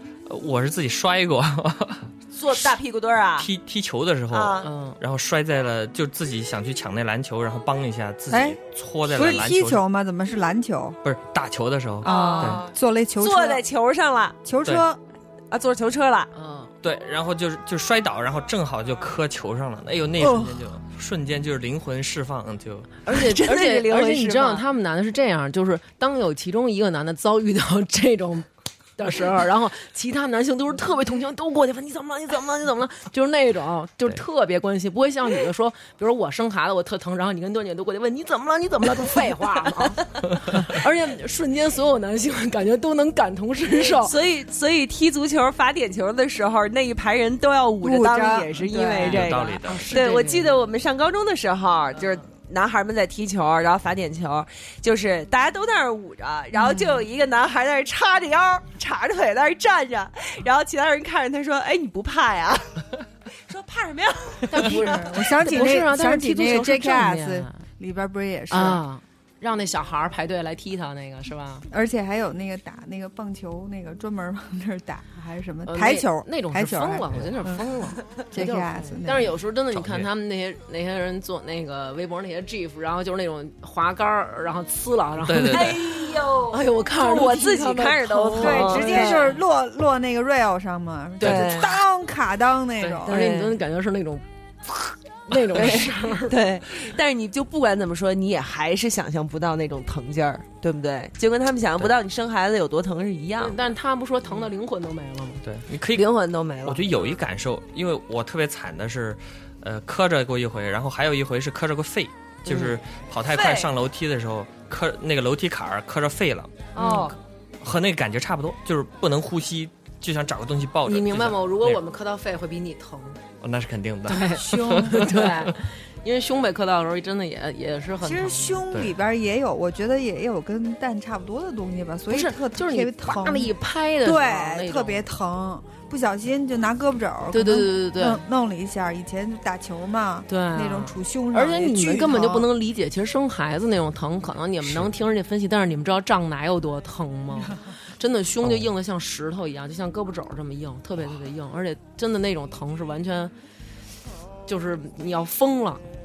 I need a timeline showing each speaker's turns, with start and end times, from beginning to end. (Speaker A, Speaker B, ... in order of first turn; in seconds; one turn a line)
Speaker A: 0.2-2.8
Speaker B: 2.3-3.5
Speaker A: 3.4-9.8
Speaker B: 4.3-4.7
Speaker C: 4.6-5.0
Speaker D: 8.3-11.0
Speaker A: 11.0-12.7
Speaker D: 12.0-13.6
Speaker B: 12.0-14.4
Speaker D: 14.4-15.0
Speaker B: 15.5-16.3
Speaker C: 16.3-16.7
Speaker A: 16.8-22.9
Speaker D: 20.2-20.6
Speaker C: 23.0-28.5
Speaker B: 23.1-24.6
Speaker C: 29.0-44.1
Speaker B: 43.8-62.8
Speaker D: 47.8-49.4
Speaker A: 49.0-50.0
Speaker C: 49.6-50.6
Speaker D: 56.5-57.0
Speaker B: 63.5-65.7
Speaker C: 64.5-67.6
Speaker D: 64.5-68.8
Speaker C: 68.5-71.7
Speaker D: 71.7-77.6
Speaker C: 75.7-89.4
Speaker D: 78.3-79.3
Speaker A: 79.7-80.1
Speaker A: 85.2-85.9
Speaker B: 85.5-89.4
Speaker D: 88.4-93.2
Speaker C: 91.2-91.6
Speaker B: 91.2-91.8
Speaker C: 92.8-96.4
Speaker B: 93.0-93.6
Speaker B: 95.5-103.6
Speaker C: 103.4-105.4
Speaker A: 105.4-106.1
Speaker B: 105.9-106.9
Speaker A: 106.6-121.8
Speaker B: 112.5-113.7
Speaker B: 116.7-117.2
Speaker C: 116.8-117.1
Speaker C: 120.8-123.2
Speaker A: 123.4-125.5
Speaker C: 124.1-128.6
Speaker D: 124.4-125.2
Speaker D: 128.0-142.5
Speaker C: 132.1-135.0
Speaker C: 137.3-138.2
Speaker C: 140.3-153.3
Speaker A: 144.6-144.9
Speaker A: 148.4-148.7
Speaker C: 154.5-155.8